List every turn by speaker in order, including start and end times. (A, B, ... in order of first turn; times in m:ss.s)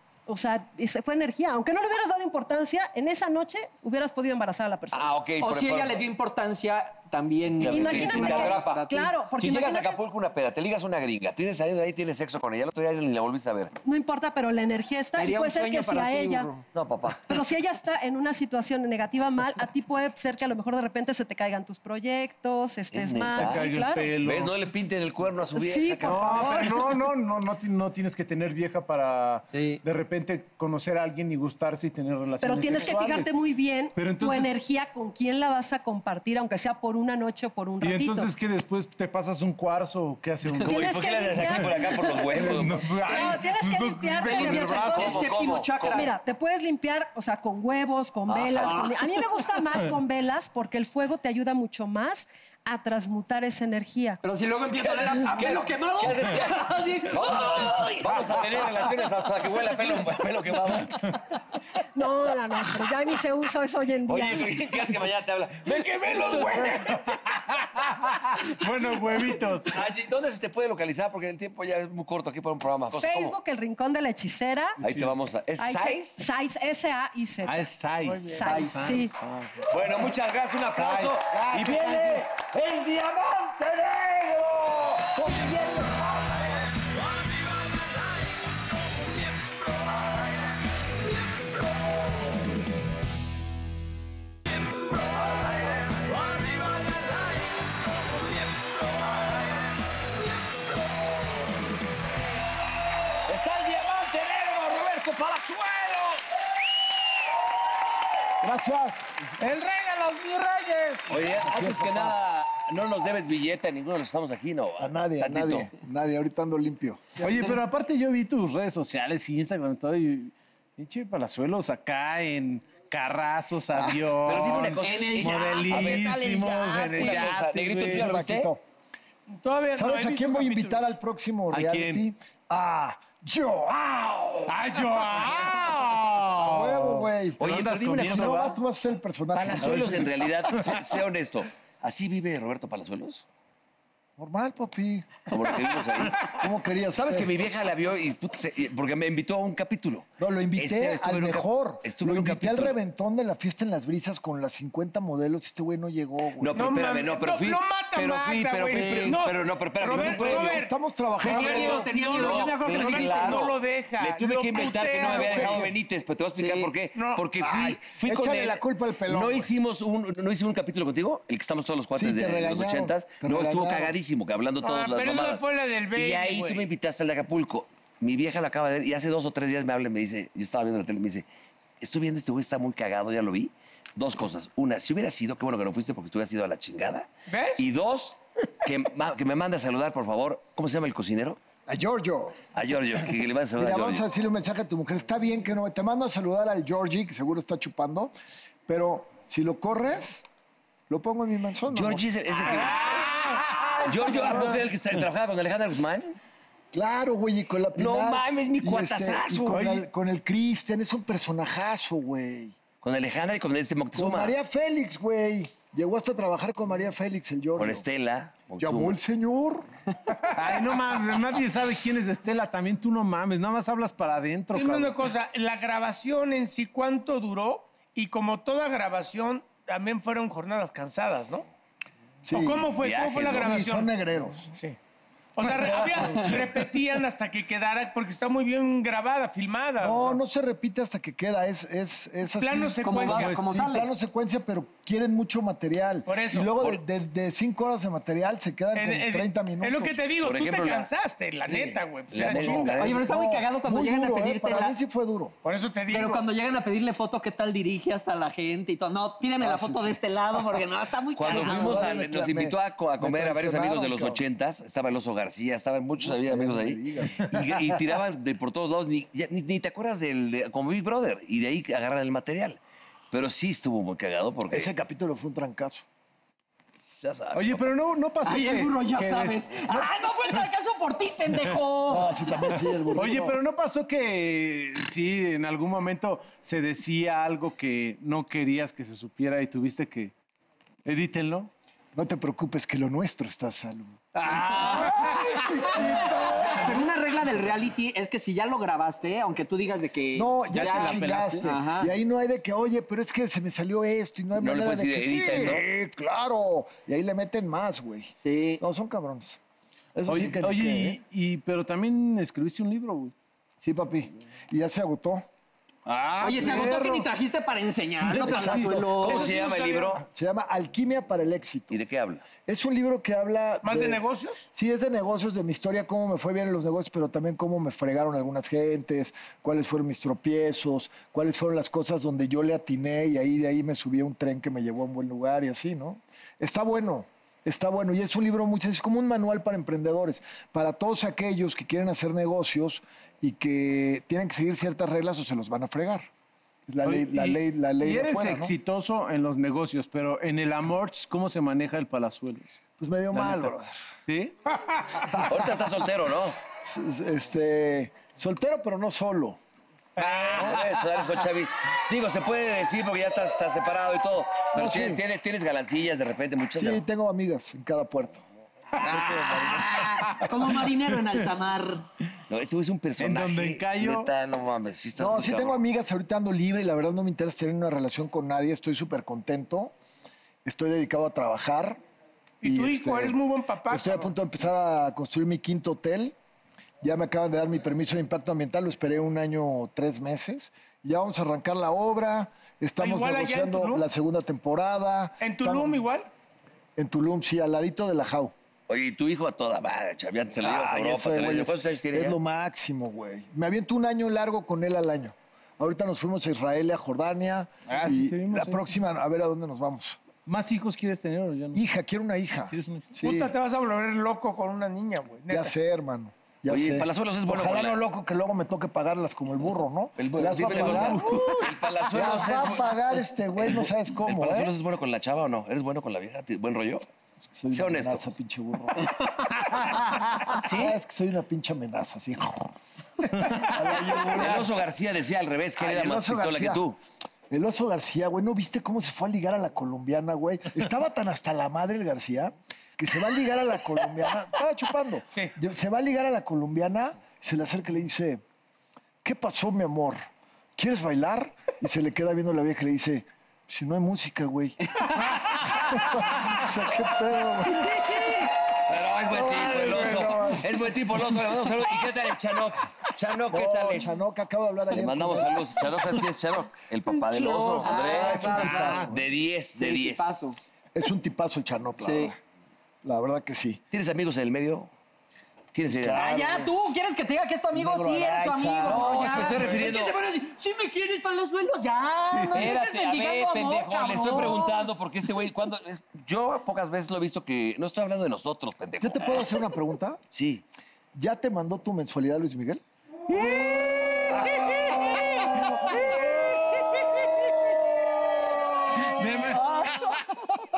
0:00.3-0:05.1 A
0:04.9-0:06.0 B
0:05.4-0:09.1 C
0:07.5-0:13.7 B
0:07.7-0:10.0 A
0:13.8-0:16.5 A
0:15.2-0:16.6 C
0:16.7-0:17.4 B
0:17.2-0:24.1 A
0:22.9-0:23.7 B
0:23.4-0:24.5 D
0:24.2-0:26.8 B
0:25.5-0:26.9 A
0:26.0-0:33.3 D
0:29.5-0:29.8 C
0:32.4-0:38.3 A
0:33.9-0:34.5 D
0:37.8-0:41.8 D
0:40.6-0:43.4 B
0:40.6-0:45.2 A
0:42.3-0:45.2 D
0:44.2-0:46.1 C
0:44.3-0:46.1 B
0:45.9-0:54.2 A
0:48.3-0:48.9 B
0:48.6-0:49.0 C
0:54.2-0:58.9 C
0:54.8-1:01.2 B
1:01.9-1:04.7 A
1:04.0-1:07.2 B
1:06.8-1:09.8 D
1:09.7-1:13.4 B
1:13.0-1:14.8 A
1:14.8-1:16.2 B
1:14.8-1:15.1 D
1:15.6-1:19.1 A
1:17.4-1:19.7 D
1:18.0-1:18.5 E
1:18.4-1:18.8 C
1:19.7-1:30.0 B
1:20.7-1:22.2 D
1:34.7-1:39.4 B
1:43.2-1:46.2 B
1:48.4-1:49.3 F
1:49.4-1:51.1 D
1:51.1-1:55.7 B
1:51.4-1:52.1 F
1:54.8-1:57.3 F
1:57.2-2:08.2 D
2:03.7-2:04.0 F
2:04.2-2:06.3 B
2:04.9-2:07.1 C
2:07.0-2:08.5 B
2:07.9-2:08.6 F
2:09.3-2:10.9 E
2:09.8-2:14.6 F
2:11.5-2:12.1 D
2:14.5-2:18.6 D
2:16.4-2:20.1 F
2:17.4-2:18.5 B
2:19.3-2:23.2 B
2:19.6-2:20.1 D
2:24.2-2:25.3 F
2:25.3-2:32.8 B
2:26.0-2:27.3 F
2:30.2-2:36.7 F
2:36.4-2:40.6 B
2:36.5-2:45.7 E
2:38.7-2:39.1 C
2:39.9-2:41.8 F
2:41.2-2:43.5 C
2:41.2-3:01.3 B
2:44.9-2:45.6 F
2:46.9-2:47.3 E
2:47.4-2:49.5 F
2:51.9-2:53.9 F
2:54.6-2:56.7 E
3:01.8-3:11.4 B
3:07.3-3:07.6 E
3:11.7-3:12.4 F
3:12.5-3:14.0 B
3:13.0-3:18.1 F
3:18.7-3:20.2 F
3:20.9-3:22.0 F
3:21.7-3:23.1 B
3:22.8-3:24.2 D
3:23.6-3:24.6 F
3:23.8-3:26.2 B
3:26.7-3:32.6 F
3:27.7-3:29.6 B
3:29.5-3:29.8 D
3:32.8-3:34.3 B
3:33.9-3:37.8 F
3:37.6-3:39.0 B
3:38.6-3:39.7 F
3:40.3-3:45.0 D
3:44.5-3:51.5 E
3:52.2-3:52.8 F
3:52.3-3:53.9 E
3:52.8-3:53.6 B
3:53.3-3:54.5 F
3:55.4-4:00.2 E
3:55.5-3:56.5 F
3:59.8-4:10.0 F
4:02.4-4:03.3 E
4:02.8-4:03.9 C
4:03.1-4:03.5 D
4:06.0-4:06.8 E
4:08.7-4:12.7 E
4:10.2-4:10.9 B
4:11.5-4:15.3 F
4:12.1-4:13.1 B
4:12.7-4:14.8 C
4:15.4-4:16.2 E
4:15.9-4:22.0 C
4:19.4-4:20.6 F
4:21.2-4:32.6 B
4:21.2-4:24.2 F
4:26.0-4:27.6 F
4:33.1-4:34.7 B
4:34.5-4:35.8 F
4:36.8-4:37.6 B
4:37.3-4:39.5 D
4:38.2-4:42.2 C
4:41.9-4:43.4 F
4:43.0-4:50.1 D
4:50.8-4:51.5 D
4:51.9-4:56.9 F
4:54.1-4:56.4 D
4:56.6-5:01.9 C
5:00.1-5:09.4 F
5:00.5-5:01.6 D
5:04.4-5:05.6 B
5:08.2-5:08.6 C
5:09.9-5:11.0 F
5:10.0-5:13.1 D
5:13.6-5:15.2 F
5:15.8-5:17.0 D
5:16.2-5:19.3 C
5:16.3-5:16.9 F
5:18.0-5:19.1 F
5:18.2-5:18.6 D
5:19.0-5:20.0 E
5:19.0-5:20.0 B
5:20.0-5:21.8 F
5:21.7-5:22.3 B
5:22.4-5:24.0 F
5:23.6-5:24.5 E
5:24.5-5:46.1 F
5:46.7-5:48.5 F
5:46.8-5:52.5 D
5:52.8-5:53.7 F
5:53.1-5:53.5 D
5:54.1-5:55.2 D
5:55.2-5:56.4 B
5:56.6-5:59.4 F
6:00.0-6:00.5 E
6:00.0-6:00.6 D
6:00.3-6:06.8 B
6:04.5-6:05.0 F
6:06.6-6:08.2 F
6:08.8-6:10.6 D
6:08.8-6:09.7 F
6:09.4-6:11.9 C
6:12.3-6:15.6 B
6:13.0-6:14.1 D
6:15.0-6:19.7 F
6:20.4-6:21.8 F
6:22.4-6:24.1 E
6:22.4-6:26.1 F
6:26.8-6:35.8 F
6:32.8-6:33.8 E
6:35.2-6:36.1 E
6:36.8-6:38.3 F
6:38.7-6:42.2 B
6:40.4-6:50.0 F
6:47.6-6:48.7 D
6:50.2-6:51.6 D
6:51.5-6:53.3 F
6:52.5-6:53.0 D
6:53.0-6:55.5 E
6:55.3-7:01.2 F
6:56.5-6:57.8 B
7:00.0-7:06.8 B
7:00.4-7:01.5 D
7:01.9-7:04.5 F
7:07.3-7:09.6 F
7:07.5-7:08.1 B
7:10.2-7:12.5 F
7:10.4-7:10.8 B
7:13.1-7:14.5 F
7:14.1-7:16.8 B
7:15.6-7:16.6 F
7:17.3-7:28.2 F
7:29.0-7:30.0 F
7:30.6-7:34.6 F
7:35.5-7:38.3 F
7:38.6-7:44.0 B
7:39.1-7:41.0 F
7:43.3-7:45.5 F
7:44.7-7:50.3 B
7:47.1-7:49.0 C
7:47.2-7:48.9 F
7:48.0-7:48.9 D
7:49.6-7:50.4 C
7:50.7-7:52.2 F
7:51.8-7:52.1 C
7:52.8-7:53.6 F
7:53.7-7:54.7 B
7:55.5-7:56.1 B
7:55.7-7:56.5 F
7:55.8-8:04.7 C
7:57.5-7:59.6 F
7:58.6-8:00.0 B
8:02.3-8:09.4 B
8:08.8-8:10.0 F
8:10.1-8:10.4 B
8:10.9-8:12.6 F
8:13.1-8:17.1 D
8:13.2-8:16.0 F
8:14.2-8:14.5 B
8:18.7-8:20.0 D
8:18.8-8:20.0 F